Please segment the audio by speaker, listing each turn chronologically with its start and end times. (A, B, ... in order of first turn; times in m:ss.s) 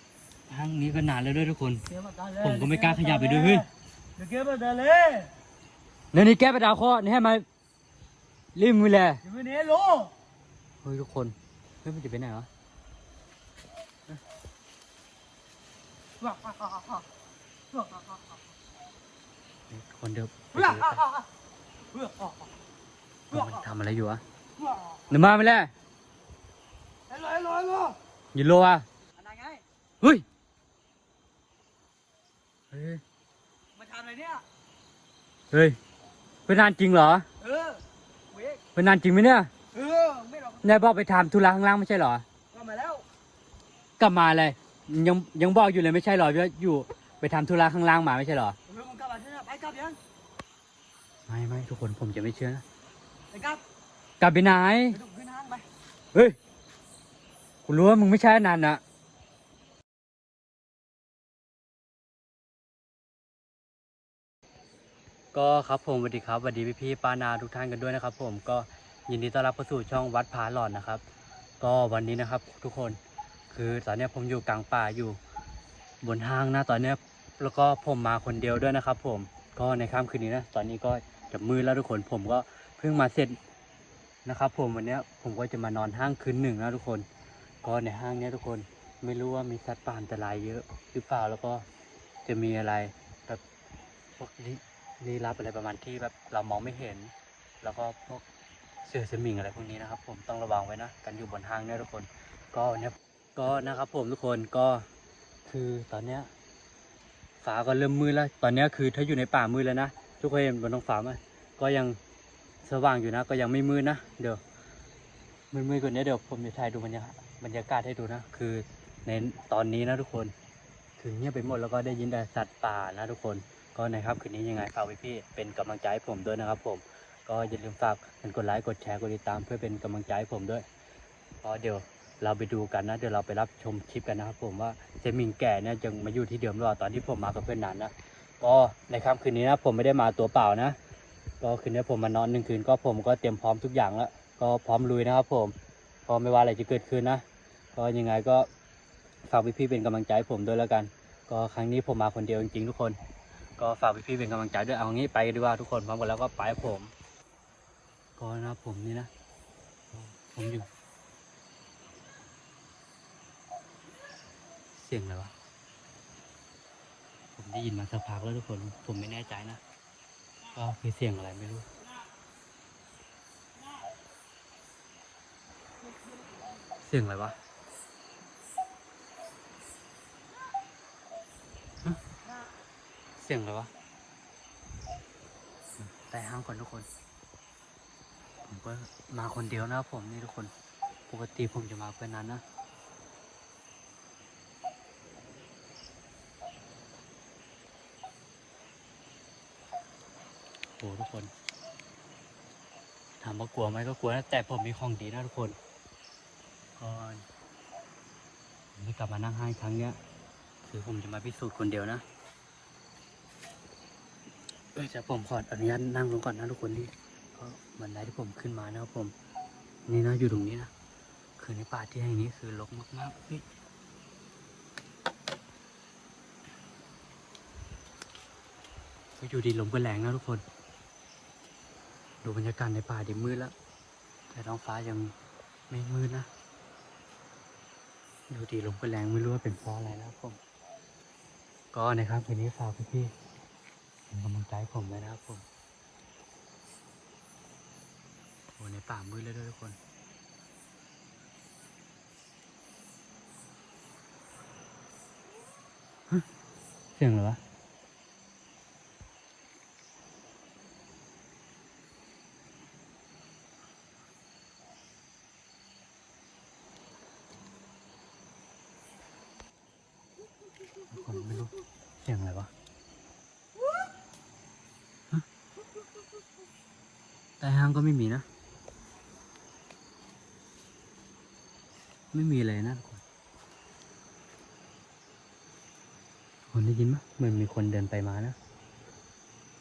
0:00.5-0:01.8 A
0:01.9-0:03.6 B
0:02.4-0:03.6 A
0:04.2-0:05.3 B
0:06.1-0:07.4 A
0:08.5-0:09.2 A
0:09.2-0:10.1 B
0:10.8-0:12.5 A
0:16.2-0:17.0 B
0:19.7-0:21.0 A
0:20.6-0:21.2 B
0:21.9-0:22.4 B
0:23.3-0:24.2 A
0:25.1-0:25.7 A
0:27.1-0:28.0 B
0:28.3-0:28.8 A
0:29.2-0:29.6 B
0:32.7-0:33.0 A
0:33.8-0:34.4 B
0:35.5-0:35.8 A
0:36.5-0:37.2 A
0:37.4-0:38.6 B
0:38.7-0:39.5 A
0:39.7-0:40.7 B
0:40.6-0:42.2 A
0:42.5-0:43.0 B
0:44.0-0:48.6 A
0:48.7-0:50.0 B
0:51.3-0:52.6 A
0:53.3-0:53.6 B
0:54.2-0:55.0 A
0:54.9-0:55.6 B
0:57.6-0:58.8 A
1:05.3-1:11.0 A
1:11.6-1:13.0 A
1:13.5-1:15.2 A
1:16.0-1:23.4 A
1:24.2-1:27.1 A
1:27.6-1:31.6 A
1:32.2-1:33.4 A
1:34.2-1:38.2 A
1:38.8-1:44.9 A
1:45.4-1:46.3 A
1:47.4-1:52.0 A
1:52.6-1:54.4 A
1:55.5-2:00.3 A
2:01.0-2:10.6 A
2:11.4-2:20.8 A
2:21.4-2:25.5 A
2:26.0-2:27.2 A
2:27.8-2:28.5 A
2:29.2-2:33.0 A
2:33.6-2:36.9 A
2:38.2-2:39.1 A
2:39.9-2:40.7 A
2:44.8-2:45.3 A
2:47.4-2:49.6 A
2:50.5-2:51.7 A
2:56.8-2:57.4 A
3:03.2-3:03.7 A
3:05.9-3:06.9 A
3:08.5-3:10.5 A
3:11.1-3:12.4 A
3:20.8-3:21.3 A
3:23.2-3:25.6 A
3:26.8-3:27.2 A
3:28.8-3:30.0 A
3:30.6-3:32.0 A
3:34.7-3:39.1 A
3:39.9-3:40.7 A
3:41.4-3:43.4 A
3:49.2-3:50.4 A
3:52.2-3:53.5 A
3:54.3-3:55.1 A
3:55.7-3:56.3 A
3:58.3-4:00.4 A
4:01.7-4:03.1 A
4:04.1-4:05.4 A
4:08.6-4:09.8 A
4:17.0-4:17.4 A
4:30.9-4:32.5 A
4:37.4-4:38.2 A
4:42.1-4:43.0 A
4:46.5-4:48.4 A